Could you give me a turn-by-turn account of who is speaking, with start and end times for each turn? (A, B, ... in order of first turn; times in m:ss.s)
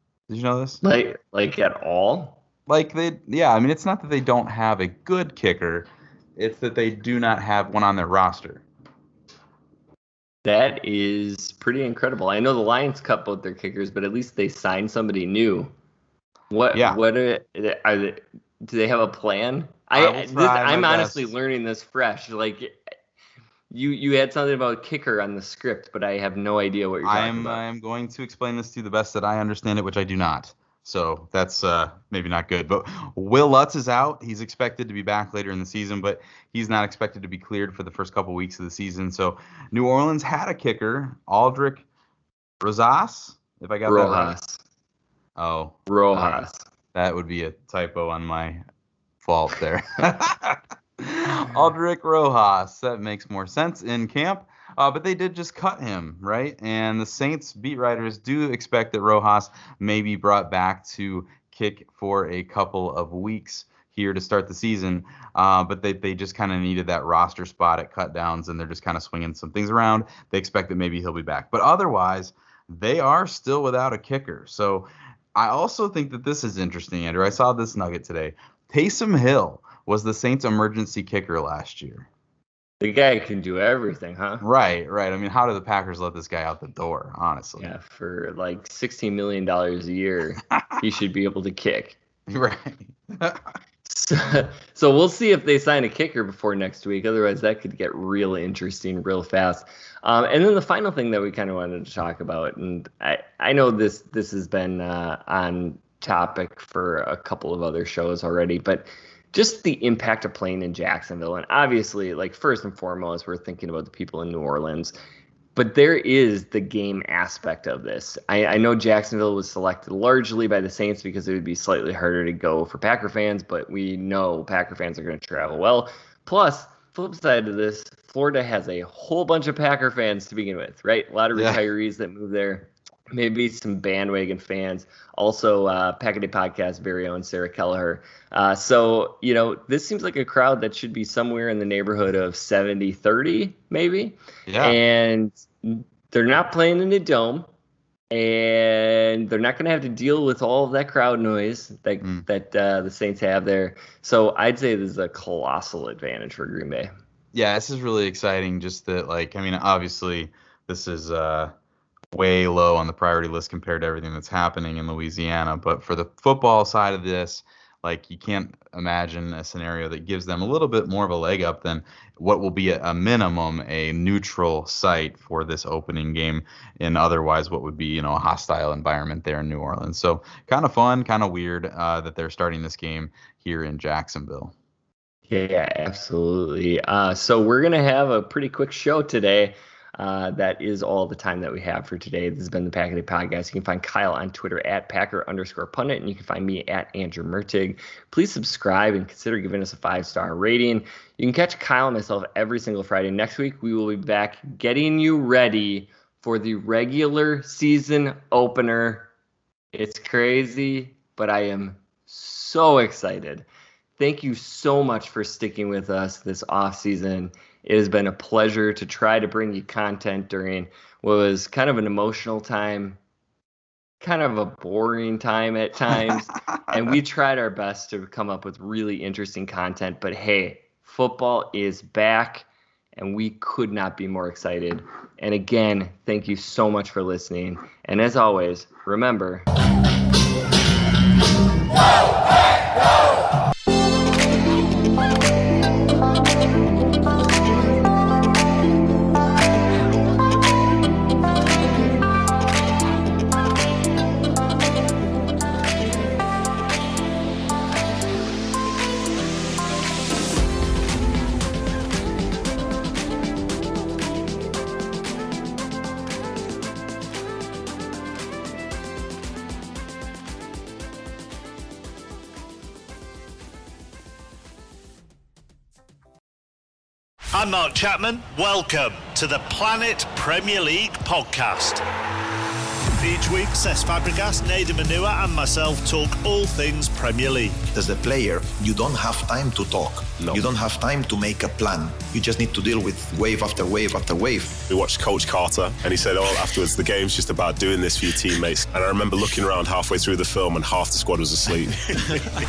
0:00.3-0:00.8 A
0:00.8-0:02.4 B
0:02.7-0:08.6 A
0:10.4-0:15.7 B
0:16.5-0:22.8 B
0:19.9-0:21.3 A
0:23.7-0:27.6 B
0:27.0-0:41.8 A
0:42.6-0:44.3 A
0:43.9-0:44.6 B
0:45.4-0:48.6 A
0:45.9-0:46.6 B
0:49.2-1:22.1 A
1:22.8-1:24.4 B
1:24.4-1:27.7 A
1:27.6-1:32.0 B
1:32.3-1:33.5 A
1:33.8-1:55.0 B
1:55.6-2:27.5 B
2:24.5-2:24.8 A
2:28.1-2:36.9 B
2:37.3-2:41.5 A
2:42.1-3:04.5 A
3:05.3-3:29.1 B
3:29.7-3:33.5 B
3:34.0-3:43.0 B
3:44.0-3:59.5 B
4:37.3-4:41.8 C
4:43.0-4:47.6 C
4:47.8-4:54.6 D
4:50.2-4:50.5 E
4:54.7-5:02.3 E